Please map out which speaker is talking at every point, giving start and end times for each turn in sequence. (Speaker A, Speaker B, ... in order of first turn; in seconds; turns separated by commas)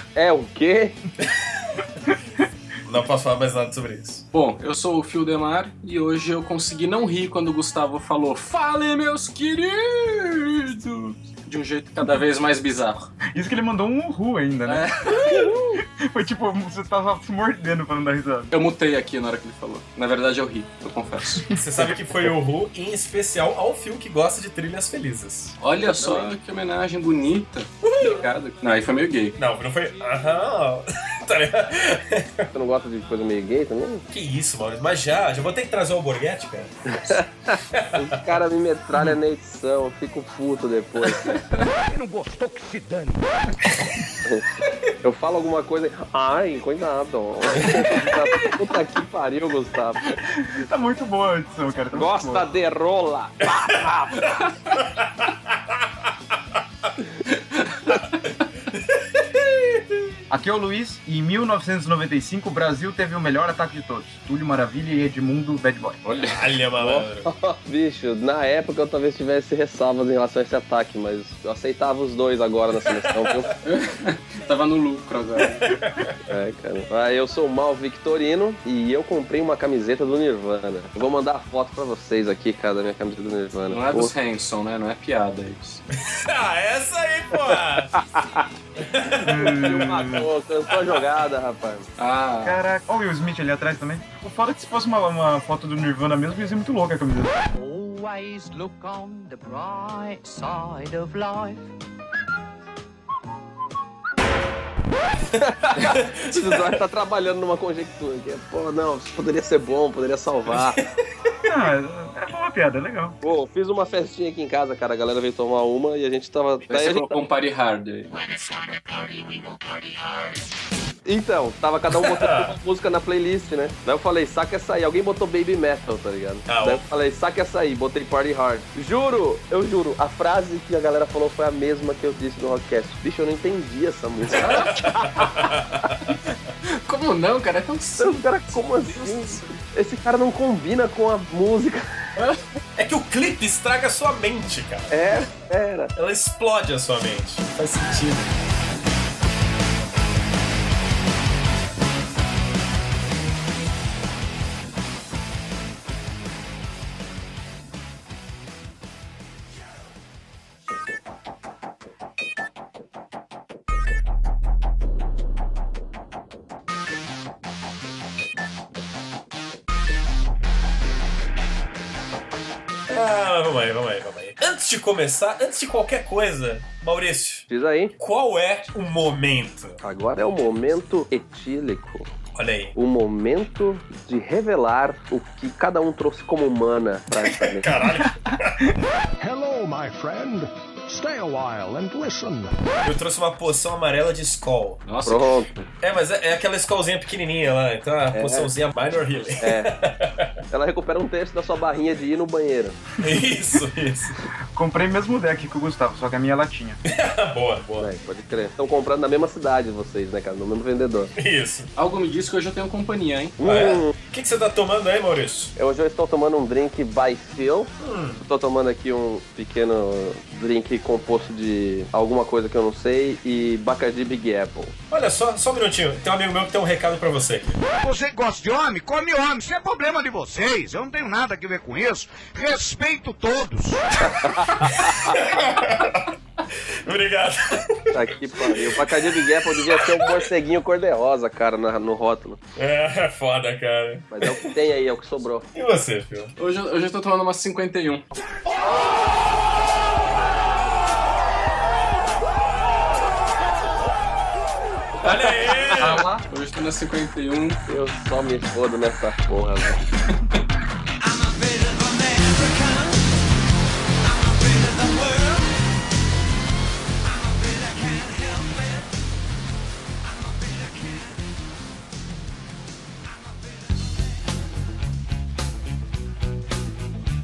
Speaker A: 0.2-1.0, Speaker B: 2.9-4.2, Speaker C: 4.3-13.1, Speaker D: 13.3-18.5, Speaker C: 14.7-15.6, Speaker C: 18.5-21.5, Speaker B: 21.6-25.6, Speaker C: 25.6-29.4, Speaker A: 26.0-26.3, Speaker B: 27.8-28.2, Speaker B: 29.4-32.5, Speaker A: 32.5-34.0, Speaker B: 34.1-38.1, Speaker A: 36.9-41.4, Speaker E: 41.9-43.4, Speaker A: 45.0-50.2, Speaker D: 50.3-52.5, Speaker A: 51.9-54.4, Speaker B: 54.7-55.3, Speaker C: 57.5-58.0, Speaker B: 59.0-59.8, Speaker D: 60.3-66.0, Speaker C: 66.0-66.4, Speaker B: 66.3-67.3, Speaker A: 66.8-73.5, Speaker C: 73.6-75.6, Speaker B: 75.6-76.1, Speaker A: 76.3-84.1, Speaker C: 83.7-85.8, Speaker B: 86.0-88.1, Speaker B: 88.8-89.6, Speaker D: 89.2-90.3, Speaker A: 89.5-91.9, Speaker C: 92.0-92.6, Speaker D: 92.4-97.3, Speaker F: 97.5-101.7, Speaker A: 105.4-110.8, Speaker B: 105.8-106.8, Speaker D: 111.5-113.2, Speaker A: 113.2-117.1, Speaker C: 116.7-118.1, Speaker A: 121.1-134.7, Speaker B: 121.9-122.5, Speaker B: 126.5-126.8, Speaker C: 134.3-135.5, Speaker B: 134.5-136.1, Speaker C: 136.8-139.6, Speaker A: 138.0-142.1, Speaker B: 142.8-145.2, Speaker A: 144.9-145.9, Speaker B: 145.9-148.3, Speaker B: 172.9-177.5, Speaker A: 177.5-177.9, Speaker B: 178.0-179.8, Speaker A: 179.8-182.1, Speaker B: 182.3-182.8, Speaker A: 182.8-187.7, Speaker B: 187.1-188.7, Speaker G: 189.2-192.9, Speaker B: 192.8-194.8, Speaker C: 194.8-195.6, Speaker A: 195.1-195.5, Speaker B: 195.8-200.3, Speaker A: 198.1-198.5, Speaker A: 199.4-199.7, Speaker A: 200.5-202.8, Speaker B: 203.0-204.2, Speaker D: 204.5-206.8, Speaker B: 206.9-207.9, Speaker A: 207.8-211.1, Speaker B: 211.2-211.7, Speaker C: 211.8-213.4, Speaker A: 213.4-213.9, Speaker B: 213.4-215.5, Speaker A: 215.6-217.7, Speaker B: 217.8-218.2, Speaker A: 218.2-224.7, Speaker B: 224.9-227.6, Speaker E: 227.8-234.1, Speaker A: 234.0-235.2, Speaker B: 234.5-236.1, Speaker B: 236.8-237.9, Speaker A: 237.9-242.4, Speaker B: 238.5-240.2, Speaker B: 242.6-244.5, Speaker A: 244.1-245.5, Speaker B: 245.5-246.3, Speaker C: 246.4-248.1, Speaker B: 255.0-256.1, Speaker D: 255.8-256.2, Speaker C: 255.9-257.6, Speaker A: 257.7-259.8, Speaker F: 261.2-262.9, Speaker F: 267.4-268.5